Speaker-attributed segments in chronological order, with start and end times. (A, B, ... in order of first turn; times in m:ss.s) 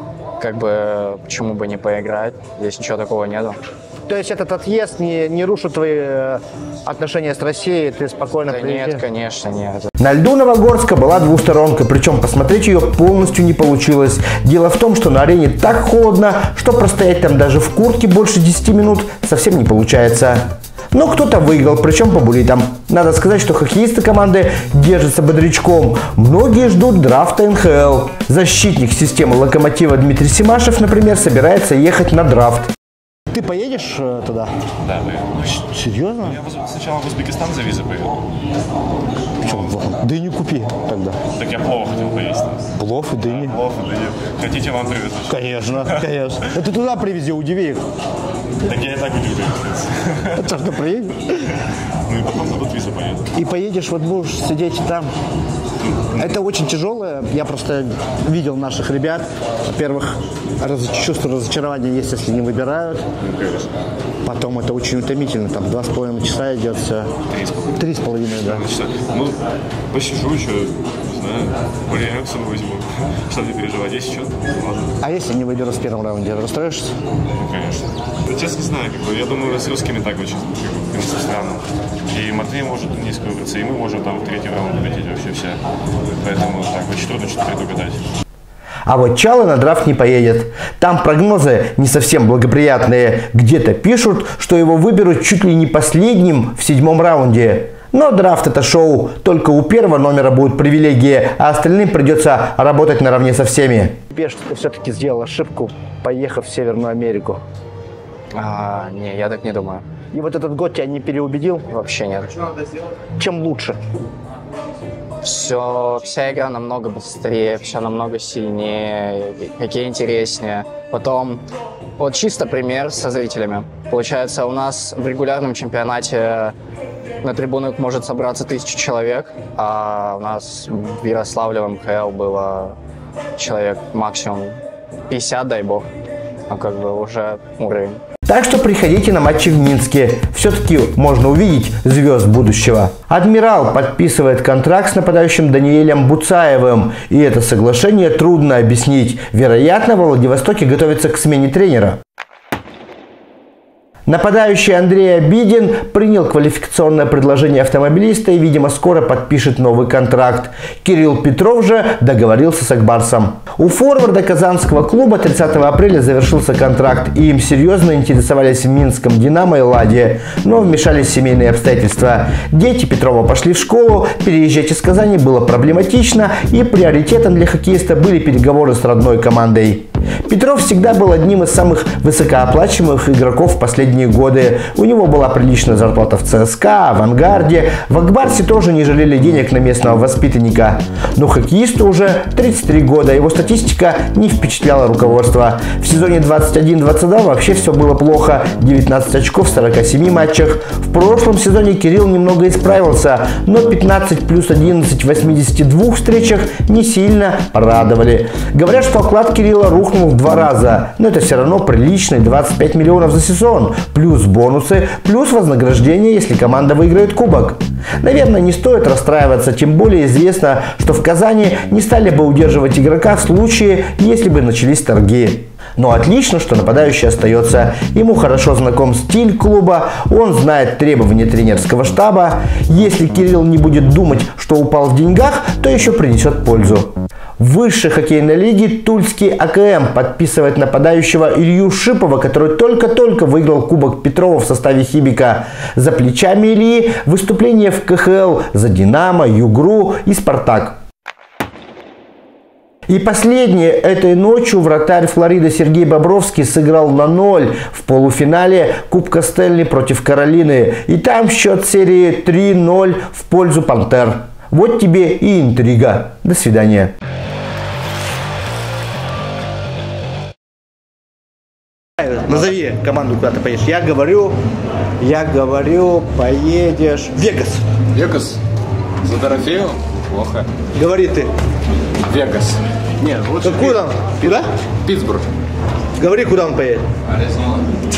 0:00.4-0:03.6 A
0:04.1-0:09.0 B
0:08.5-0:09.9 A
0:10.0-0:32.7 B
0:33.3-0:34.5 B
0:34.8-0:35.5 C
0:35.4-0:36.4 B
0:36.2-0:38.2 C
0:39.4-0:39.8 C
0:39.4-0:41.2 B
0:41.3-0:42.7 C
0:42.8-0:43.6 B
0:43.3-0:46.0 C
0:45.3-0:47.8 B
0:48.6-0:50.5 C
0:50.3-0:51.5 B
0:52.1-0:53.3 C
0:53.3-0:55.1 B
0:56.2-1:03.1 B
1:03.2-1:03.7 C
1:04.2-1:07.1 B
1:07.3-1:07.8 C
1:07.8-1:08.7 B
1:08.3-1:09.4 C
1:09.9-1:14.9 C
1:15.0-1:17.0 B
1:17.4-1:25.6 C
1:26.2-1:28.0 C
1:28.9-1:47.4 B
1:48.3-1:49.8 A
1:50.1-1:51.6 B
1:51.7-1:52.4 A
1:53.2-1:53.8 B
1:55.2-2:01.4 A
2:02.0-2:06.6 A
2:07.2-2:12.8 A
2:13.4-2:15.9 A
2:16.5-2:18.0 A
2:18.3-2:32.0 B
2:34.1-4:10.8 B
4:12.9-4:26.9 B
4:32.0-4:34.4 B
4:35.0-4:37.6 B
4:37.9-4:38.4 D
4:39.0-4:40.5 D
4:40.8-4:41.3 B
4:42.0-4:45.3 D
4:43.4-4:44.5 B
4:46.0-4:46.8 B